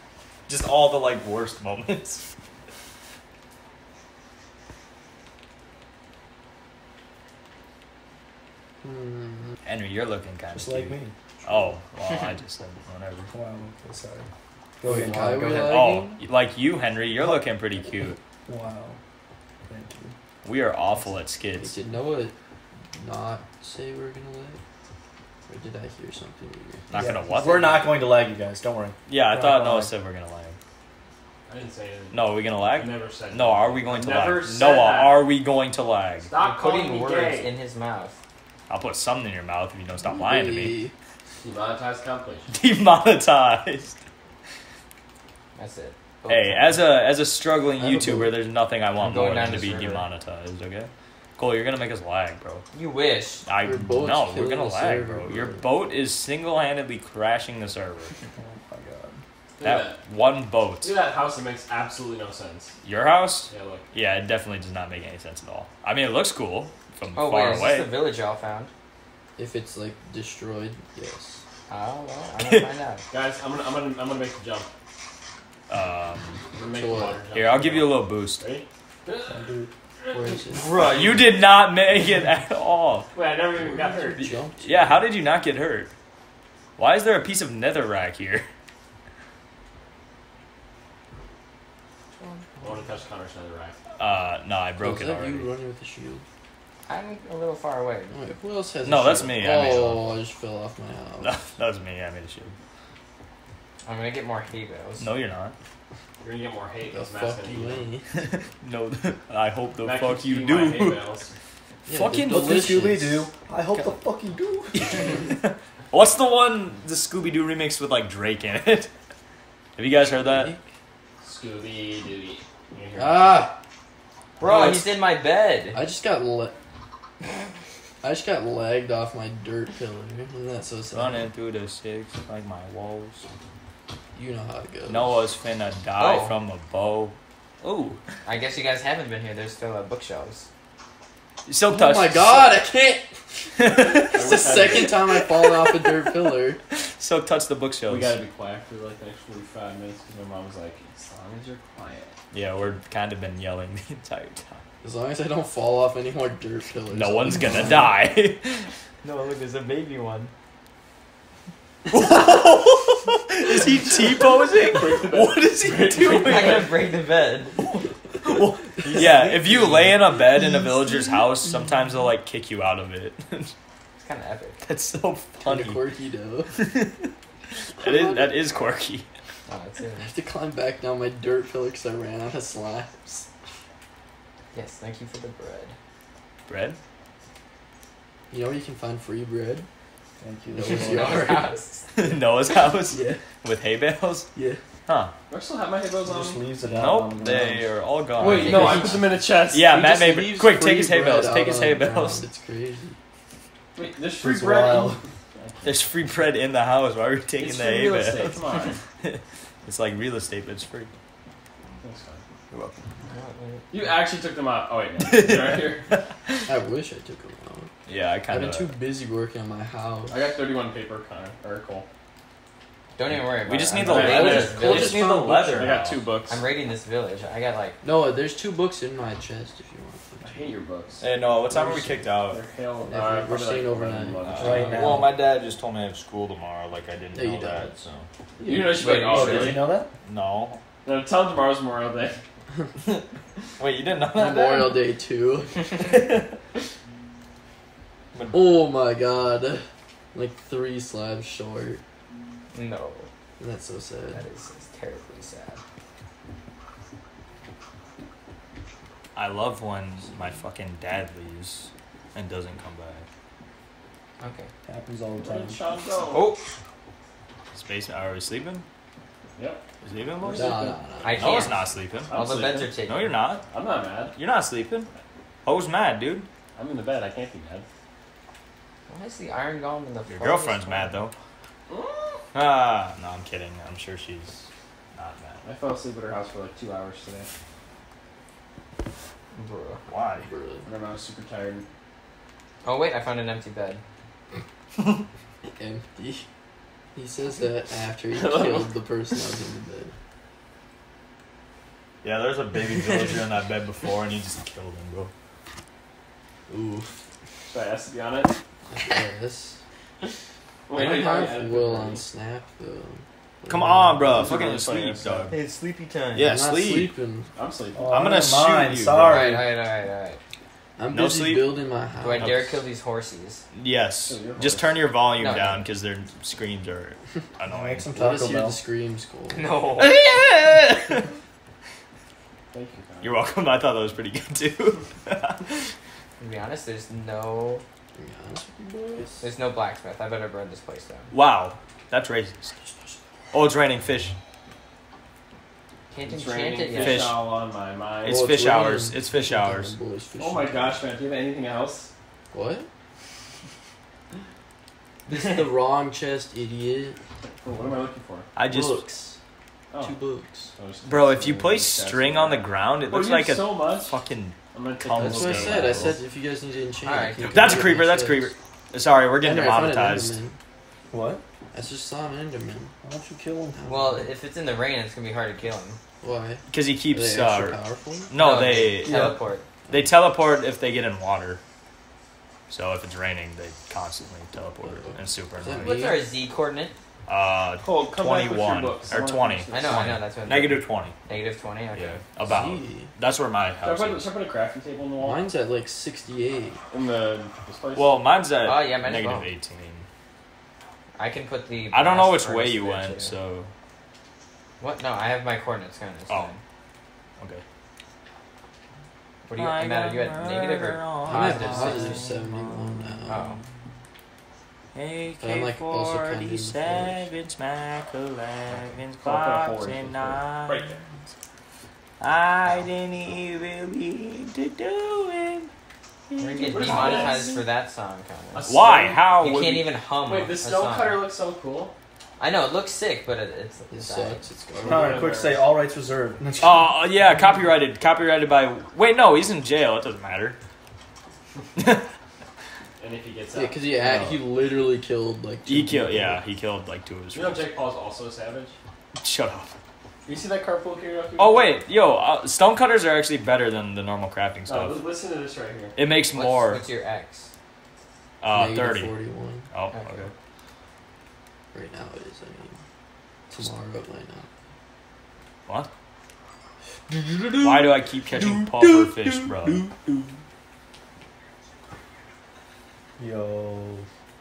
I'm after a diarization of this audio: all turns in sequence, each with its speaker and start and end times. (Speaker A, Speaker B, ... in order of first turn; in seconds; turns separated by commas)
Speaker A: 0.5-2.2, Speaker B: 8.8-9.6, Speaker A: 9.6-13.3, Speaker C: 10.5-11.1, Speaker C: 13.3-14.3, Speaker C: 14.8-15.7, Speaker B: 14.8-16.2, Speaker A: 15.5-18.2, Speaker C: 18.5-19.0, Speaker C: 19.6-20.1, Speaker A: 20.4-21.7, Speaker B: 21.5-22.3, Speaker B: 22.9-24.6, Speaker B: 25.5-26.9, Speaker A: 26.9-27.9, Speaker C: 26.9-29.9, Speaker A: 29.1-30.6, Speaker D: 31.5-35.2, Speaker A: 32.1-36.3, Speaker D: 36.2-37.5, Speaker E: 36.4-38.2, Speaker A: 38.7-40.8, Speaker B: 40.0-40.9, Speaker D: 41.4-42.5, Speaker A: 42.5-44.0, Speaker E: 45.5-46.8, Speaker A: 46.3-52.6, Speaker B: 47.8-48.4, Speaker E: 49.0-50.1, Speaker E: 52.7-53.4, Speaker A: 53.5-58.1, Speaker B: 53.6-55.6, Speaker C: 58.4-59.2, Speaker D: 59.6-60.0, Speaker A: 59.6-61.0, Speaker D: 60.8-62.7, Speaker A: 62.8-67.9, Speaker D: 63.5-63.9, Speaker E: 67.2-68.7, Speaker B: 69.4-71.4, Speaker E: 71.7-73.0, Speaker A: 72.4-72.7, Speaker D: 73.1-74.7, Speaker A: 75.7-76.4, Speaker D: 76.5-79.4, Speaker B: 76.7-77.2, Speaker A: 77.3-78.4, Speaker C: 79.3-79.7, Speaker D: 80.0-81.0, Speaker B: 80.1-80.7, Speaker A: 80.6-83.1, Speaker D: 83.1-84.4, Speaker B: 83.6-85.0, Speaker A: 84.6-85.9, Speaker A: 86.8-88.5, Speaker D: 92.6-93.8, Speaker A: 94.0-95.5, Speaker B: 94.8-96.2, Speaker E: 96.9-98.1, Speaker B: 98.1-101.4, Speaker A: 98.8-100.1, Speaker A: 101.2-102.5, Speaker E: 103.8-105.1, Speaker A: 105.0-105.5, Speaker D: 106.2-107.9, Speaker B: 106.9-108.0, Speaker A: 108.1-111.1, Speaker D: 109.8-111.3, Speaker B: 111.8-113.9, Speaker A: 111.9-112.7, Speaker C: 112.3-115.2, Speaker A: 114.7-118.9, Speaker A: 119.8-120.5, Speaker B: 120.1-120.6, Speaker D: 121.2-123.4, Speaker B: 123.0-123.6, Speaker E: 124.4-125.8, Speaker A: 124.4-124.8, Speaker B: 125.7-126.5, Speaker B: 128.0-131.3, Speaker A: 130.9-133.2, Speaker B: 134.1-135.2, Speaker A: 134.9-138.0, Speaker E: 136.0-136.3, Speaker E: 138.2-140.5, Speaker A: 141.4-142.5, Speaker B: 141.7-146.6, Speaker A: 143.6-146.1, Speaker D: 144.0-145.0, Speaker A: 146.7-148.2, Speaker D: 147.8-152.1, Speaker A: 152.3-154.6, Speaker B: 154.8-157.9, Speaker A: 156.9-160.3, Speaker C: 157.4-157.8, Speaker A: 161.9-166.7, Speaker D: 164.6-166.7, Speaker E: 166.2-167.6, Speaker A: 167.7-173.5, Speaker C: 168.9-169.9, Speaker E: 174.0-174.6, Speaker A: 174.6-175.8, Speaker B: 175.4-176.5, Speaker A: 176.6-177.1, Speaker B: 177.8-178.4, Speaker A: 177.8-179.1, Speaker E: 179.5-180.1, Speaker B: 180.0-183.3, Speaker E: 184.5-185.7, Speaker A: 186.5-186.8, Speaker B: 188.3-189.7, Speaker C: 190.2-191.3, Speaker B: 190.5-191.6, Speaker E: 190.6-192.0, Speaker A: 191.9-194.3, Speaker B: 192.9-193.2, Speaker B: 194.3-194.6, Speaker A: 194.8-195.1, Speaker D: 195.3-196.5, Speaker C: 196.0-197.7, Speaker A: 196.6-202.2, Speaker D: 198.2-199.9, Speaker E: 198.2-199.1, Speaker B: 199.7-203.0, Speaker D: 203.7-205.7, Speaker C: 204.2-205.0, Speaker A: 205.6-208.5, Speaker D: 207.4-208.8, Speaker A: 209.0-210.9, Speaker D: 211.8-212.2, Speaker A: 212.5-212.8, Speaker E: 213.1-213.7, Speaker D: 213.7-215.8, Speaker A: 215.0-216.4, Speaker B: 216.5-217.7, Speaker A: 217.9-218.7, Speaker B: 218.3-220.2, Speaker D: 220.1-221.9, Speaker E: 222.9-225.0, Speaker A: 223.4-226.1, Speaker B: 223.7-225.9, Speaker D: 223.8-225.0, Speaker D: 225.5-226.4, Speaker E: 226.3-227.8, Speaker B: 227.8-230.5, Speaker D: 230.2-231.0, Speaker A: 231.0-232.4, Speaker B: 231.5-232.0, Speaker D: 231.7-235.1, Speaker B: 232.9-234.8, Speaker A: 234.3-238.1, Speaker C: 234.4-235.2, Speaker B: 237.1-237.8, Speaker B: 238.4-239.2, Speaker D: 238.4-239.7, Speaker E: 238.8-239.6, Speaker A: 239.1-240.6, Speaker C: 239.2-239.9, Speaker D: 240.8-242.2, Speaker A: 243.6-244.8, Speaker B: 244.1-245.8, Speaker A: 245.8-246.3, Speaker A: 248.1-248.5, Speaker B: 248.3-251.8, Speaker E: 252.5-253.1, Speaker B: 253.4-254.2, Speaker E: 254.1-255.6, Speaker A: 259.1-263.1, Speaker E: 264.2-264.5, Speaker C: 264.6-265.8, Speaker D: 265.2-266.3, Speaker E: 266.1-266.4, Speaker A: 267.5-268.6, Speaker D: 269.4-269.6, Speaker A: 269.8-272.2, Speaker D: 270.2-270.7, Speaker B: 270.2-271.5, Speaker E: 271.0-273.1, Speaker D: 272.0-272.8, Speaker A: 272.8-273.5, Speaker D: 273.5-274.2, Speaker A: 274.1-274.9, Speaker A: 275.4-276.3, Speaker D: 276.6-277.6, Speaker E: 278.9-280.9, Speaker A: 280.1-281.1, Speaker D: 281.7-282.2, Speaker A: 282.3-285.4, Speaker D: 285.4-287.3, Speaker E: 289.3-289.8, Speaker A: 289.9-290.3, Speaker B: 290.2-290.7, Speaker D: 290.6-291.6, Speaker E: 292.6-293.8, Speaker A: 294.8-295.0, Speaker B: 295.6-296.2, Speaker B: 296.9-299.9, Speaker D: 298.3-298.6, Speaker A: 302.0-305.1, Speaker B: 306.5-307.0, Speaker D: 307.5-308.4, Speaker B: 308.7-309.6, Speaker D: 310.7-312.0, Speaker B: 310.7-314.4, Speaker A: 313.5-315.4, Speaker D: 314.1-315.3, Speaker E: 315.3-316.3, Speaker A: 316.1-316.9, Speaker B: 316.2-317.3, Speaker D: 317.3-317.9, Speaker C: 317.7-319.5, Speaker A: 317.9-319.4, Speaker E: 319.0-320.2, Speaker B: 320.8-322.4, Speaker A: 320.9-321.6, Speaker E: 322.0-323.4, Speaker A: 322.2-322.6, Speaker A: 323.5-327.9, Speaker D: 324.1-325.0, Speaker E: 325.2-325.6, Speaker C: 327.5-328.6, Speaker B: 327.9-329.5, Speaker E: 329.3-329.9, Speaker A: 329.8-331.1, Speaker D: 332.5-333.2, Speaker A: 333.0-335.7, Speaker E: 336.2-337.6, Speaker B: 337.9-339.2, Speaker E: 339.2-341.1, Speaker A: 341.1-342.5, Speaker B: 342.5-343.0, Speaker A: 343.3-344.1, Speaker E: 345.9-347.1, Speaker D: 346.0-348.4, Speaker A: 346.7-347.3, Speaker A: 348.0-349.7, Speaker B: 348.0-350.8, Speaker D: 350.2-351.9, Speaker B: 352.3-352.7, Speaker B: 355.1-357.0, Speaker D: 357.2-358.3, Speaker A: 358.4-358.9, Speaker B: 358.5-359.2, Speaker D: 359.7-360.0, Speaker B: 359.8-360.5, Speaker D: 360.6-364.0, Speaker A: 360.8-366.0, Speaker D: 364.5-365.9, Speaker B: 364.9-368.3, Speaker E: 366.8-367.7, Speaker A: 367.2-370.2, Speaker B: 369.2-370.4, Speaker C: 370.9-371.2, Speaker B: 371.5-372.7, Speaker C: 372.8-373.6, Speaker B: 373.5-374.1, Speaker E: 373.7-375.8, Speaker B: 376.0-378.1, Speaker A: 376.5-379.1, Speaker E: 378.1-379.4, Speaker C: 378.8-379.2, Speaker A: 379.7-381.4, Speaker A: 382.5-385.9, Speaker B: 384.6-386.0, Speaker E: 385.6-386.7, Speaker A: 387.1-390.9, Speaker D: 387.6-390.1, Speaker E: 389.5-392.0, Speaker A: 391.7-394.1, Speaker B: 392.2-392.9, Speaker D: 393.6-395.2, Speaker B: 395.0-396.6, Speaker D: 396.7-398.0, Speaker A: 397.7-399.9, Speaker E: 398.4-399.3, Speaker E: 400.9-403.1, Speaker A: 401.7-403.5, Speaker E: 404.6-406.4, Speaker E: 409.2-412.1, Speaker A: 409.4-413.4, Speaker B: 411.1-413.3, Speaker E: 413.1-413.4, Speaker A: 414.7-420.8, Speaker B: 415.2-417.0, Speaker D: 418.5-420.8, Speaker A: 422.0-425.5, Speaker A: 426.1-427.2, Speaker E: 426.2-428.5, Speaker D: 426.4-427.4, Speaker D: 428.3-429.0, Speaker A: 428.4-429.7, Speaker E: 429.1-431.0, Speaker D: 430.1-431.7, Speaker E: 432.2-434.2, Speaker B: 433.7-435.2, Speaker D: 434.6-435.5, Speaker C: 434.6-436.8, Speaker A: 436.4-440.4, Speaker A: 441.6-441.9, Speaker D: 442.8-443.7, Speaker B: 443.3-446.2, Speaker A: 445.4-447.5, Speaker D: 447.1-448.5, Speaker A: 449.0-449.5, Speaker D: 450.1-451.6, Speaker A: 451.2-454.9, Speaker D: 454.5-455.8, Speaker A: 455.8-456.6, Speaker E: 456.1-457.3, Speaker A: 458.2-458.9, Speaker B: 458.3-459.5, Speaker A: 459.5-460.1, Speaker E: 459.7-460.1, Speaker B: 461.5-462.6, Speaker B: 463.3-464.3, Speaker B: 466.9-470.2, Speaker A: 467.4-469.7, Speaker C: 473.0-473.9